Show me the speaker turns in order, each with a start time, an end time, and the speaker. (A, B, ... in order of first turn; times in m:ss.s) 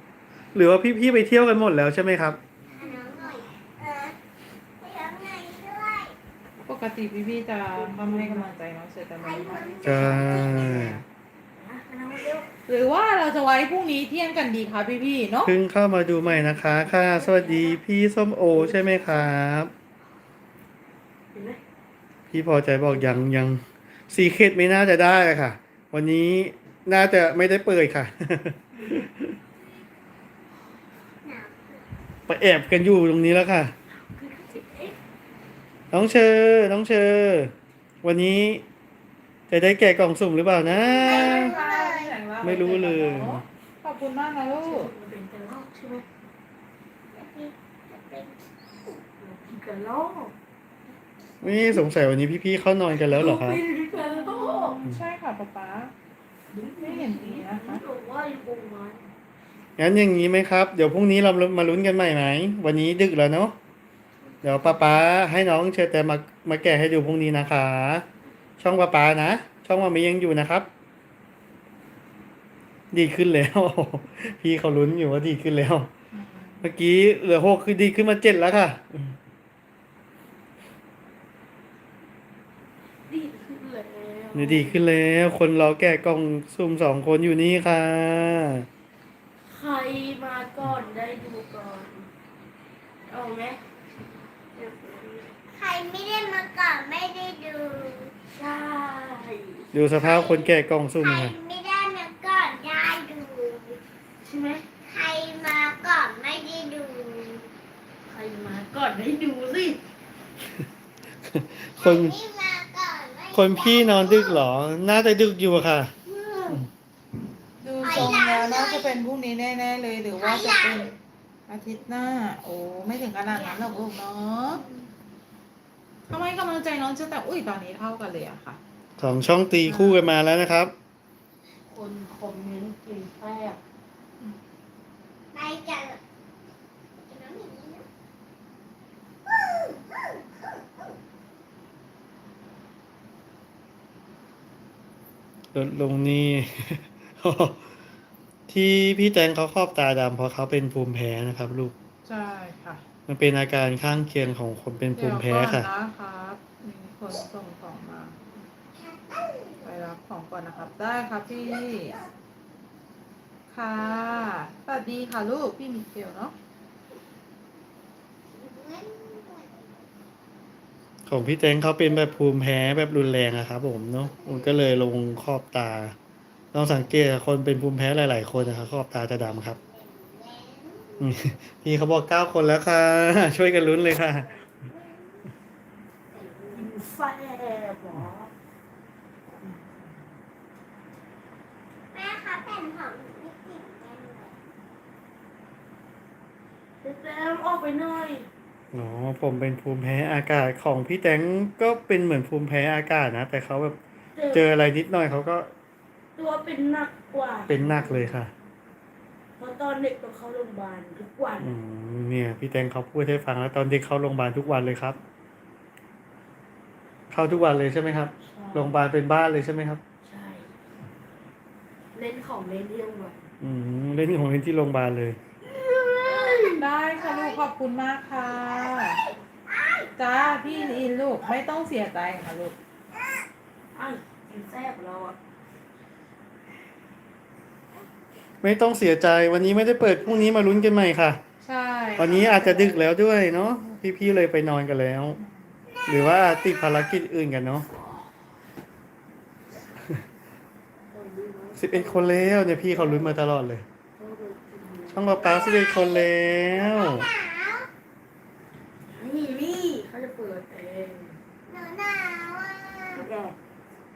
0:00.5-0:02.4 A
0:02.7-0:04.2 B
0:02.8-0:03.4 C
0:04.8-0:06.1 B
0:06.6-0:11.0 D
0:07.7-0:08.4 C
0:09.2-0:10.9 B
0:09.8-0:11.0 A
0:11.5-0:12.5 C
0:12.7-0:15.5 D
0:15.4-0:19.7 A
0:16.4-0:17.8 C
0:18.5-0:19.1 C
0:21.3-0:21.6 C
0:22.3-0:29.3 A
0:31.2-0:31.8 B
0:32.3-0:33.7 A
0:33.9-0:35.0 C
0:35.9-0:38.6 A
0:39.5-0:41.6 A
0:40.8-0:42.1 B
0:41.0-0:44.9 D
0:42.4-0:43.4 A
0:44.6-0:46.0 C
0:47.1-0:48.4 B
0:49.2-0:50.3 C
0:51.4-0:53.6 A
0:53.0-0:54.8 C
0:53.9-0:55.9 D
0:56.5-0:59.1 C
0:56.8-0:57.8 D
0:59.8-1:03.6 A
1:04.3-1:05.0 C
1:04.4-1:08.0 A
1:08.6-1:10.7 A
1:12.9-1:15.9 A
1:16.1-1:16.6 D
1:16.6-1:19.1 A
1:23.1-1:24.8 C
1:24.3-1:28.7 A
1:29.5-1:32.1 C
1:33.1-1:33.6 C
1:34.5-1:35.3 C
1:35.5-1:38.1 B
1:38.3-1:39.6 C
1:39.7-1:41.3 A
1:40.0-1:43.8 B
1:44.2-1:44.6 C
1:44.8-1:47.4 B
1:48.1-1:49.8 C
1:51.3-1:52.2 A
1:51.8-1:54.4 B
1:53.3-1:55.9 A
1:56.0-1:56.6 C
1:57.6-2:00.9 D
1:57.8-1:59.0 B
2:00.2-2:00.9 B
2:01.5-2:04.6 D
2:03.3-2:03.9 B
2:06.1-2:08.6 D
2:09.0-2:10.7 A
2:09.7-2:10.0 D
2:11.7-2:13.6 C
2:15.3-2:16.0 B
2:17.0-2:17.8 B
2:19.2-2:20.9 B
2:25.5-2:27.6 A
2:28.5-2:31.7 A
2:32.0-2:32.8 D
2:33.1-2:35.7 A
2:34.9-2:38.2 D
2:38.7-2:39.7 B
2:39.6-2:42.0 D
2:41.7-2:42.1 B
2:43.5-2:46.3 D
2:48.3-2:49.9 B
2:51.1-2:55.9 A
2:56.5-2:59.6 A
2:58.4-2:58.7 B
2:59.3-3:01.3 B
3:01.0-3:04.3 A
3:03.3-3:05.2 B
3:06.1-3:06.7 B
3:06.5-3:08.3 C
3:11.9-3:14.4 B
3:16.8-3:18.3 C
3:18.7-3:23.8 A
3:24.2-3:24.4 C
3:24.3-3:25.5 A
3:26.2-3:28.2 C
3:27.5-3:28.3 A
3:29.4-3:31.5 C
3:31.4-3:35.0 A
3:37.1-3:39.8 A
3:38.2-3:38.7 C
3:40.0-3:40.5 C
3:41.9-3:43.3 C
3:43.4-3:45.2 A
3:45.4-3:46.6 C
3:46.5-3:49.0 D
3:47.0-3:47.4 B
3:49.5-3:49.9 B
3:50.0-3:52.5 D
3:53.7-3:55.2 C
3:58.4-4:01.2 A
4:01.4-4:02.8 D
4:02.0-4:05.2 A
4:05.7-4:07.0 B
4:05.9-4:07.6 A
4:10.9-4:13.2 C
4:11.6-4:13.6 A
4:14.0-4:15.4 C
4:14.9-4:17.1 A
4:15.2-4:17.7 B
4:19.0-4:21.2 C
4:21.5-4:23.0 B
4:22.9-4:23.4 C